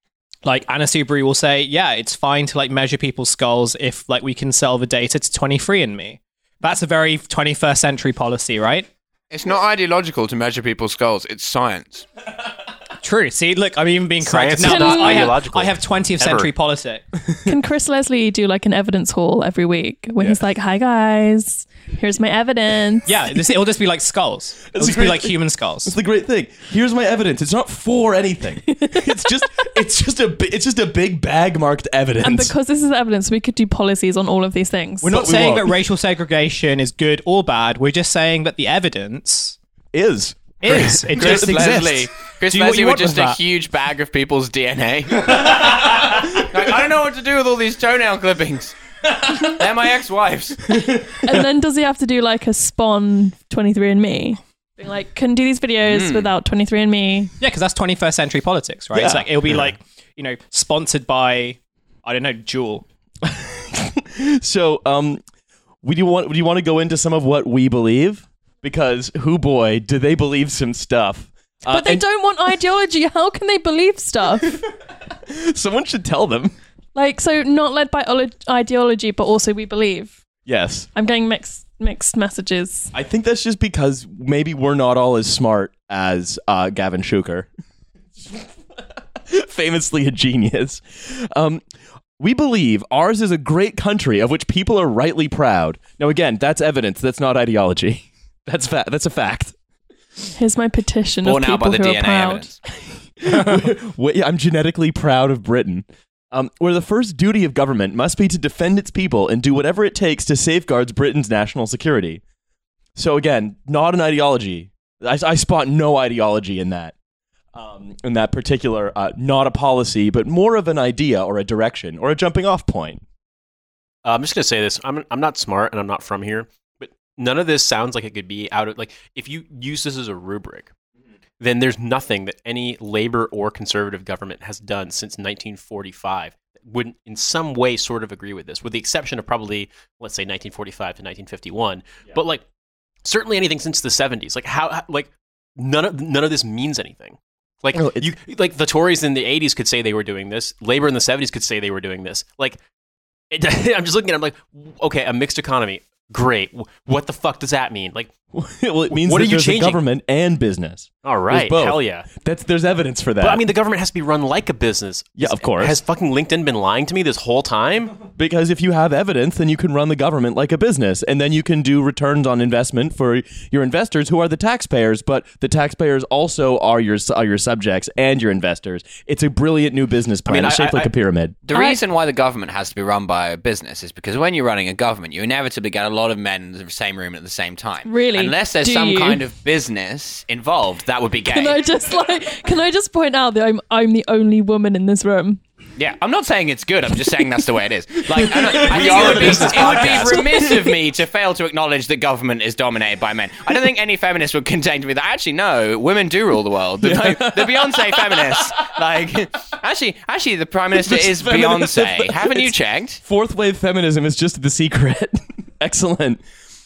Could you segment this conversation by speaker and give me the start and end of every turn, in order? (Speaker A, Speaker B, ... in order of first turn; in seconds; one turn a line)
Speaker A: 0.5-8.9
Speaker B: 9.3-12.1
Speaker A: 13.0-17.0
Speaker C: 14.2-16.5
Speaker D: 14.6-15.3
Speaker D: 17.4-23.2
Speaker A: 23.1-26.0
Speaker E: 24.7-32.5
Speaker D: 28.7-29.1
Speaker D: 32.2-35.2
Speaker A: 35.0-39.6
Speaker E: 35.1-35.8
Speaker E: 39.9-41.9
Speaker A: 40.6-43.4
Speaker B: 41.1-48.8
Speaker E: 45.4-46.3
Speaker E: 49.1-49.5
Speaker B: 49.4-50.8
Speaker E: 50.7-51.5
Speaker D: 51.2-57.3
Speaker B: 55.9-56.3
Speaker A: 57.4-62.9
Speaker E: 58.9-59.3
Speaker E: 63.2-65.2
Speaker E: 65.8-72.0
Speaker D: 71.7-74.6
Speaker E: 75.2-76.5
Speaker D: 77.0-80.2
Speaker E: 80.5-80.9
Speaker D: 81.0-82.9
Speaker E: 82.9-87.5
Speaker E: 88.2-88.5
Speaker E: 89.2-91.6
Speaker E: 92.2-99.5
Speaker D: 100.4-102.5
Speaker B: 101.2-102.6
Speaker E: 103.2-112.2
Speaker E: 113.0-116.9
Speaker E: 117.5-123.0
Speaker C: 124.0-130.7
Speaker C: 131.4-142.4
Speaker C: 143.0-152.6
Speaker E: 147.7-148.1
Speaker C: 153.3-158.1
Speaker E: 158.3-163.4
Speaker C: 158.9-159.8
Speaker C: 161.1-162.1
Speaker C: 163.2-168.0
Speaker E: 165.2-165.8
Speaker E: 168.2-181.4
Speaker C: 180.3-180.8
Speaker B: 181.5-191.6
Speaker D: 181.5-181.8
Speaker D: 187.8-189.2
Speaker D: 191.3-195.4
Speaker B: 195.8-213.0
Speaker E: 198.1-200.7
Speaker C: 198.6-200.1
Speaker D: 199.6-200.6
Speaker E: 206.8-208.6
Speaker E: 210.7-216.2